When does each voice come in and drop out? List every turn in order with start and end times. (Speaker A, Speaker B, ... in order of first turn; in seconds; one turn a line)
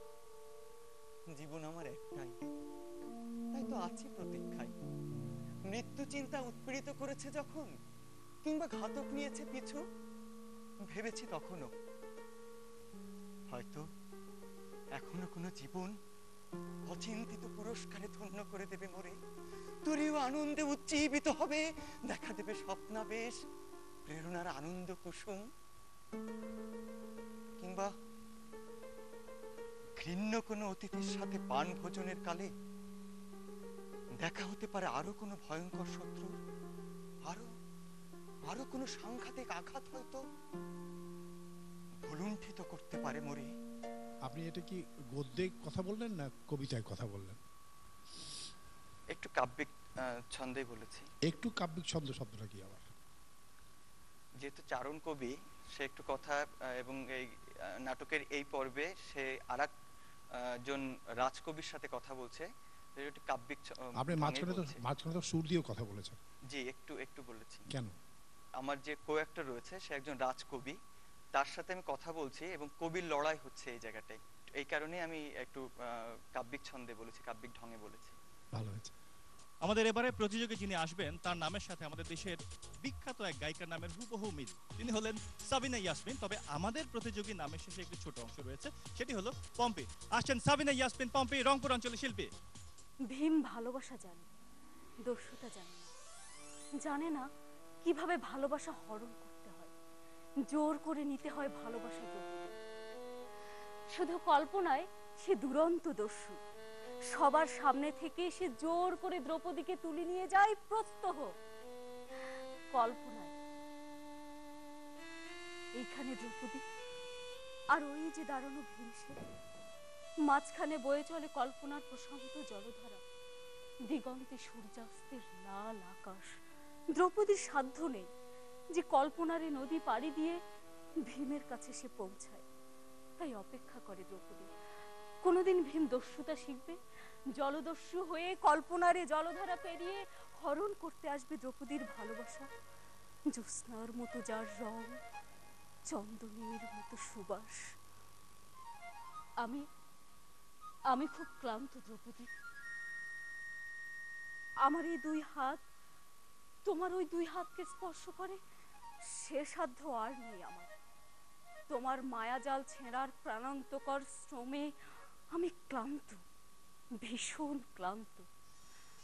Speaker A: 1.3-2.4
Speaker A: 3.5-4.7
Speaker A: 5.7-7.7
Speaker A: 8.4-9.8
Speaker A: 10.8-11.7
Speaker A: 13.5-13.9
Speaker A: 15.0-15.9
Speaker A: 16.9-19.2
Speaker A: 19.9-23.4
Speaker A: 24.1-25.5
Speaker A: 27.6-27.9
Speaker A: 30.0-32.5
Speaker A: 34.2-36.3
Speaker A: 38.5-40.2
Speaker A: 42.0-43.5
Speaker B: 44.3-47.4
Speaker A: 49.1-51.1
Speaker B: 51.2-52.8
Speaker A: 54.4-57.3
Speaker A: 57.9-59.7
Speaker A: 60.4-62.5
Speaker A: 63.0-64.8
Speaker B: 64.0-66.2
Speaker A: 66.5-67.7
Speaker B: 67.7-67.9
Speaker A: 68.6-70.8
Speaker A: 71.3-78.2
Speaker B: 78.5-78.9
Speaker C: 79.6-92.3
Speaker D: 93.1-94.3
Speaker D: 95.1-95.9
Speaker D: 96.8-97.3
Speaker D: 97.8-99.7
Speaker D: 100.5-102.6
Speaker D: 103.9-106.4
Speaker D: 107.1-111.3
Speaker D: 112.7-113.3
Speaker D: 115.8-116.6
Speaker D: 117.7-119.2
Speaker D: 120.3-123.0
Speaker D: 123.9-126.4
Speaker D: 127.0-128.1
Speaker D: 128.7-130.4
Speaker D: 131.1-132.4
Speaker D: 133.2-134.5
Speaker D: 135.2-136.8
Speaker D: 137.4-142.5
Speaker D: 143.3-145.0
Speaker D: 145.9-147.6
Speaker D: 150.9-152.3
Speaker D: 154.7-155.6
Speaker D: 156.7-158.4
Speaker D: 159.2-160.7
Speaker D: 161.7-164.7
Speaker D: 165.3-166.2
Speaker D: 167.0-168.3